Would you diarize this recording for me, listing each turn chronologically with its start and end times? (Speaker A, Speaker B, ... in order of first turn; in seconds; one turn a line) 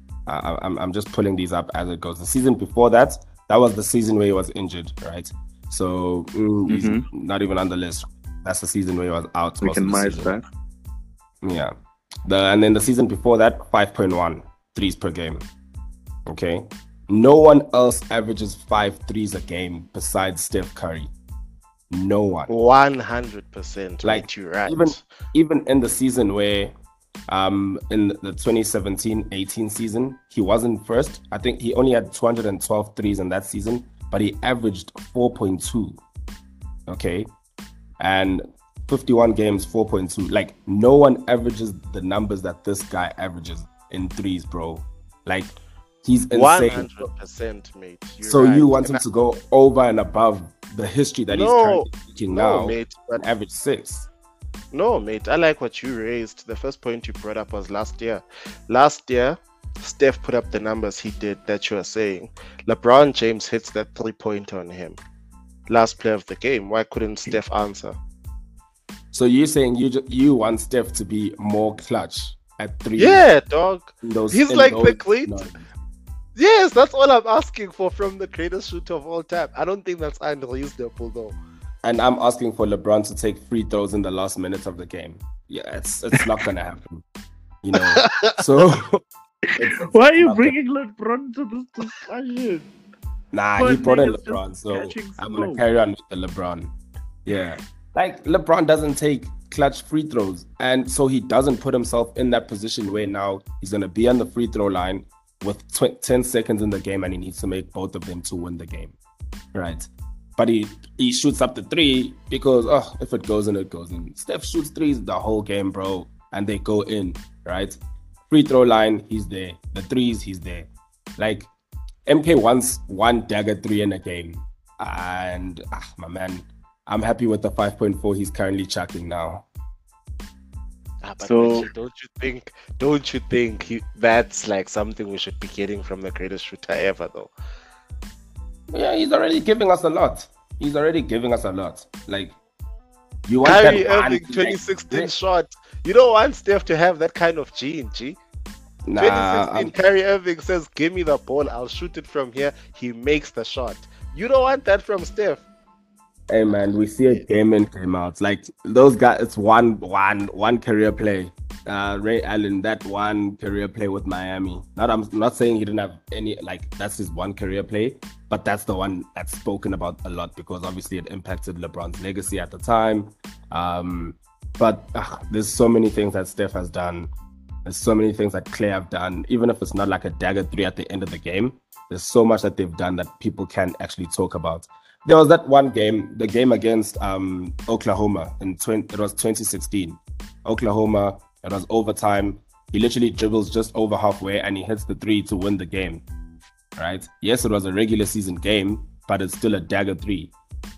Speaker A: 0.3-10.3
Speaker B: 6.7-7.0
Speaker B: 9.6-10.4
Speaker A: 11.4-11.7
Speaker A: 12.2-15.4
Speaker A: 16.2-21.1
Speaker A: 21.9-22.5
Speaker C: 22.5-25.0
Speaker A: 24.0-26.7
Speaker A: 27.3-36.0
Speaker A: 36.9-37.3
Speaker A: 38.0-47.0
Speaker C: 46.3-49.0
Speaker A: 48.2-54.1
Speaker C: 51.3-53.2
Speaker C: 54.7-65.0
Speaker C: 65.7-68.0
Speaker A: 69.1-73.2
Speaker C: 73.0-75.5
Speaker A: 74.0-75.7
Speaker C: 76.3-81.4
Speaker A: 81.8-87.0
Speaker A: 87.6-88.9
Speaker C: 88.1-88.3
Speaker A: 89.6-90.5
Speaker B: 89.8-92.7
Speaker A: 93.3-96.7
Speaker B: 93.6-95.6
Speaker A: 97.2-109.0
Speaker A: 109.5-117.8
Speaker A: 118.3-121.5
Speaker A: 122.1-129.4
Speaker C: 131.0-137.3
Speaker B: 131.2-131.7
Speaker A: 138.7-142.3
Speaker A: 143.3-145.1
Speaker C: 143.4-148.2
Speaker A: 148.8-149.7
Speaker C: 149.0-155.4
Speaker A: 156.3-177.1
Speaker A: 177.6-196.0
Speaker A: 196.8-200.3